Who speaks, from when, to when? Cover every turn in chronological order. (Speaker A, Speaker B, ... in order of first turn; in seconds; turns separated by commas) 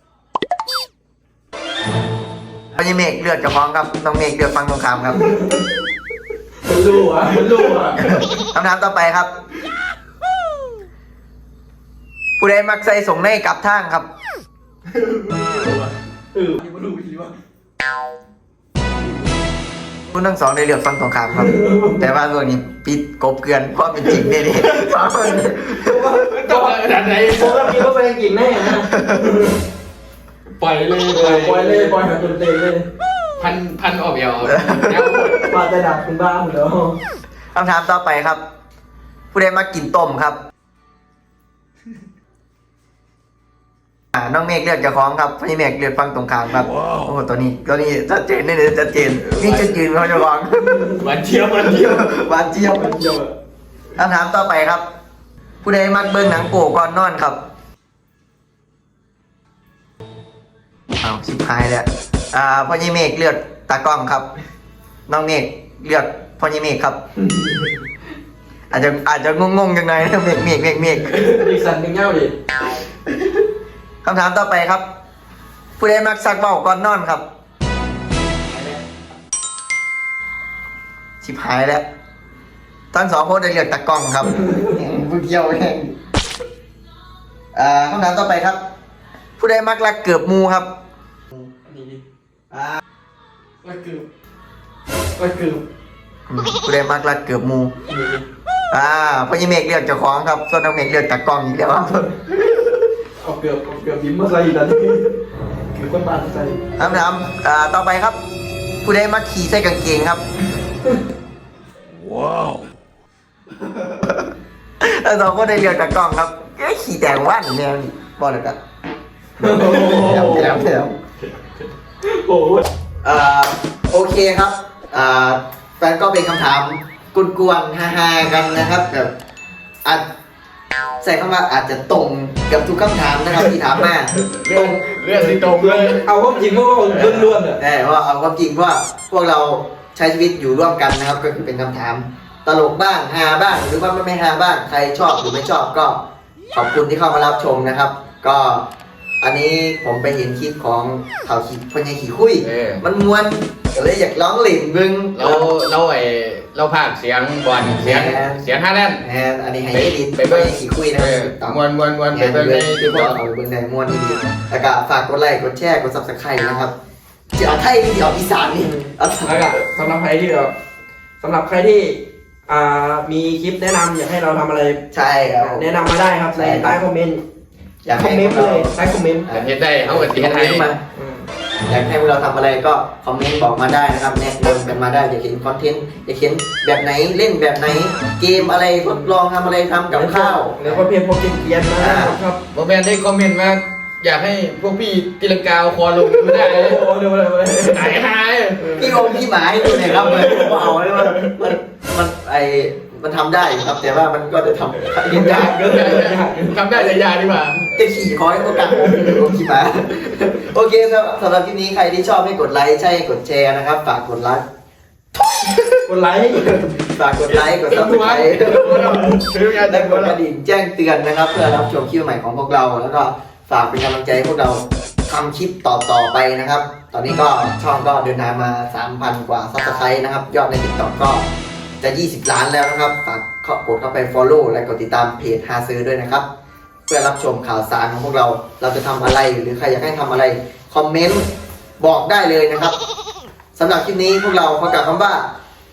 Speaker A: 2.7-5.2, Speaker B: 5.1-5.6, Speaker B: 6.6-8.1, Speaker A: 8.0-9.3, Speaker A: 12.4-14.1, Speaker B: 15.1-17.4, Speaker A: 20.1-26.1, Speaker B: 21.4-22.1, Speaker B: 25.7-29.6, Speaker C: 26.2-27.8, Speaker A: 29.0-29.2, Speaker C: 30.6-32.0, Speaker B: 31.0-32.9, Speaker C: 33.4-35.4, Speaker A: 34.4-35.5, Speaker B: 35.4-37.0, Speaker A: 37.5-38.4, Speaker A: 39.3-40.4, Speaker A: 44.1-51.0, Speaker C: 49.2-49.9, Speaker B: 50.6-53.3, Speaker C: 51.0-51.5, Speaker A: 51.6-53.0, Speaker A: 54.0-54.8, Speaker A: 55.6-57.4, Speaker A: 61.0-64.2, Speaker A: 65.1-67.0, Speaker B: 67.3-67.7, Speaker A: 68.7-71.5, Speaker B: 71.1-72.3, Speaker A: 74.0-74.8, Speaker A: 75.8-77.2, Speaker A: 81.2-81.8, Speaker A: 82.9-85.9, Speaker A: 87.5-88.6, Speaker A: 89.4-90.7, Speaker B: 91.6-92.0, Speaker A: 92.5-92.8, Speaker B: 93.6-94.0, Speaker B: 95.2-95.6, Speaker A: 96.3-97.7, Speaker B: 97.9-98.2, Speaker A: 98.7-102.2, Speaker B: 103.2-105.2, Speaker B: 105.7-106.9, Speaker A: 106.8-108.2, Speaker A: 108.8-110.2, Speaker A: 114.8-118.6, Speaker B: 119.4-120.8, Speaker A: 119.4-121.0, Speaker B: 122.0-122.6, Speaker A: 123.0-129.1, Speaker A: 131.0-134.8, Speaker C: 134.2-136.0, Speaker B: 135.1-137.6, Speaker A: 136.9-146.0, Speaker A: 146.5-148.7, Speaker A: 149.2-155.5, Speaker C: 152.4-152.8, Speaker C: 155.1-159.0, Speaker A: 157.8-158.5, Speaker A: 159.0-161.6, Speaker C: 159.7-163.2, Speaker A: 162.1-166.7, Speaker A: 167.3-169.6, Speaker B: 168.6-170.5, Speaker B: 171.2-174.8, Speaker A: 174.9-175.7, Speaker B: 175.4-177.2, Speaker A: 176.3-176.8, Speaker A: 177.8-178.7, Speaker B: 177.9-179.3, Speaker A: 179.3-180.8, Speaker C: 179.3-180.7, Speaker B: 180.9-181.3, Speaker A: 181.7-190.9, Speaker B: 188.8-189.1, Speaker B: 189.9-192.4, Speaker A: 191.8-192.2, Speaker C: 192.5-196.8, Speaker B: 196.2-198.0, Speaker C: 197.7-199.0, Speaker A: 198.7-205.8, Speaker B: 200.0-201.0, Speaker B: 205.1-206.6, Speaker C: 205.6-207.6, Speaker A: 207.5-214.4, Speaker A: 215.2-215.8, Speaker B: 215.9-216.7, Speaker A: 216.3-231.2, Speaker C: 217.2-220.2, Speaker B: 218.5-219.2, Speaker A: 231.8-236.2, Speaker A: 236.9-241.3, Speaker A: 241.8-242.7, Speaker A: 243.6-245.3